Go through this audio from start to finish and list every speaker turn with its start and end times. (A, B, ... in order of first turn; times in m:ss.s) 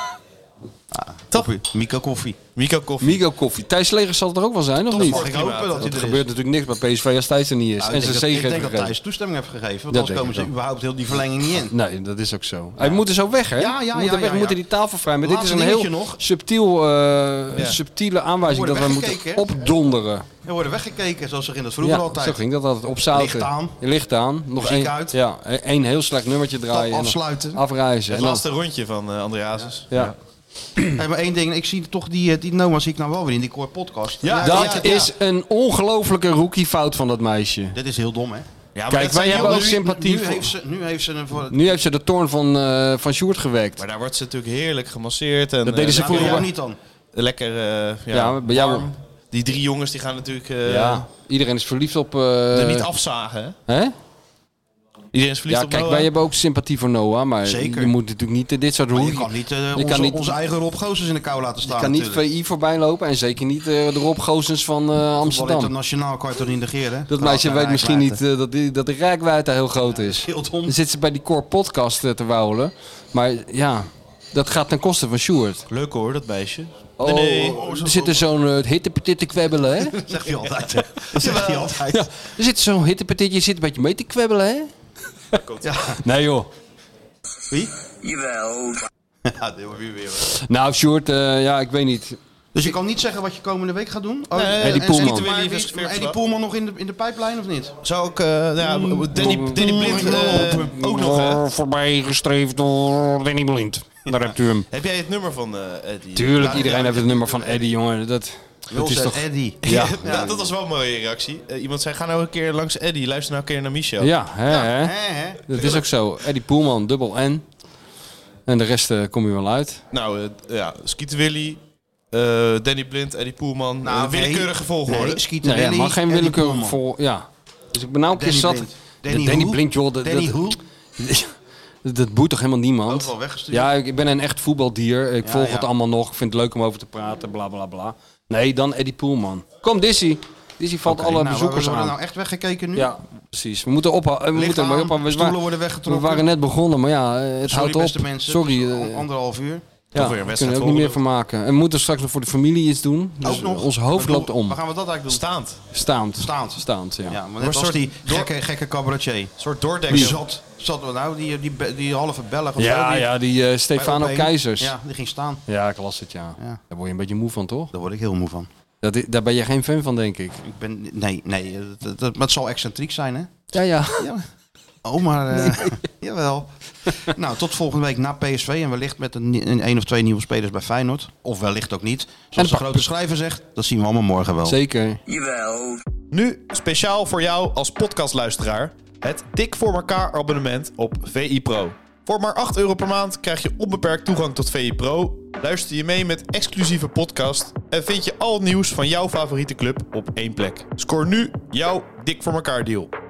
0:00.9-0:02.4 A
0:02.6-0:03.2 B
0:03.0-0:05.3 C
0:04.9-0:06.3 A
0:05.0-0:05.9 B
0:05.8-0:08.9 C
0:07.8-0:11.7 A
0:09.9-0:10.5 C
0:11.7-0:20.3 C
0:13.6-0:14.6 A
0:15.2-0:16.2 A
0:18.5-0:19.6 A
0:20.4-0:22.4 A
0:21.8-0:28.4 C
0:23.1-0:23.8 A
0:24.6-0:25.2 A
0:26.7-0:27.6 A
0:28.1-0:30.2 B
0:30.9-0:35.1 A
0:34.2-0:35.1 B
0:34.4-0:37.8 C
0:37.7-0:38.5 A
0:38.8-0:39.7 B
0:38.9-0:40.5 C
0:39.1-0:41.7 A
0:41.5-0:43.8 C
0:43.8-0:46.5 B
0:45.6-0:46.5 C
0:45.9-0:46.8 A
0:47.1-0:51.0 B
0:48.1-0:48.9 C
0:50.7-0:52.9 C
0:52.5-0:53.6 B
0:53.7-0:53.9 C
0:55.1-0:56.1 B
0:55.5-1:00.4 C
0:57.4-0:58.0 A
0:58.9-1:02.2 A
1:01.6-1:05.7 C
1:05.2-1:08.2 A
1:07.1-1:15.6 C
1:09.9-1:10.8 A
1:15.7-1:18.2 B
1:17.0-1:20.0 C
1:17.5-1:17.9 A
1:20.0-1:20.5 B
1:20.0-1:22.1 A
1:21.0-1:21.7 B
1:21.9-1:24.7 C
1:25.4-1:25.8 B
1:25.6-1:26.0 A
1:26.0-1:26.5 C
1:29.2-1:30.3 A
1:30.3-1:32.2 C
1:32.5-1:37.8 A
1:34.3-1:36.2 B
1:34.6-1:35.3 C
1:37.8-1:41.4 B
1:38.6-1:40.8 A
1:39.2-1:44.7 C
1:44.7-1:47.6 B
1:46.2-1:50.3 C
1:46.4-1:47.0 A
1:48.7-1:50.5 A
1:49.6-1:54.1 B
1:54.0-1:55.0 C
1:54.5-1:55.8 A
1:55.5-1:57.4 C
1:58.5-1:59.8 C
1:59.9-2:01.6 B
2:02.1-2:05.2 B
2:03.8-2:06.8 A
2:05.4-2:11.3 C
2:08.1-2:10.6 A
2:11.8-2:22.0 C
2:12.9-2:13.7 A
2:15.2-2:15.7 A
2:20.8-2:22.9 A
2:22.8-2:29.1 C
2:24.3-2:26.3 A
2:27.4-2:29.6 A
2:30.0-2:31.0 B
2:30.0-2:34.6 C
2:33.2-2:35.2 A
2:35.1-2:35.6 B
2:35.7-2:37.2 C
2:36.2-2:39.3 A
2:37.4-2:38.3 B
2:39.4-2:40.2 B
2:39.9-2:43.1 A
2:42.6-2:44.8 C
2:43.8-2:45.4 A
2:45.5-2:47.7 C
2:47.7-2:48.5 A
2:48.8-2:50.4 C
2:50.4-2:54.2 A
2:53.5-2:54.1 C
2:54.8-3:04.6 A
2:55.3-2:55.8 C
3:02.4-3:02.9 C
3:04.5-3:05.0 C
3:06.1-3:22.9 B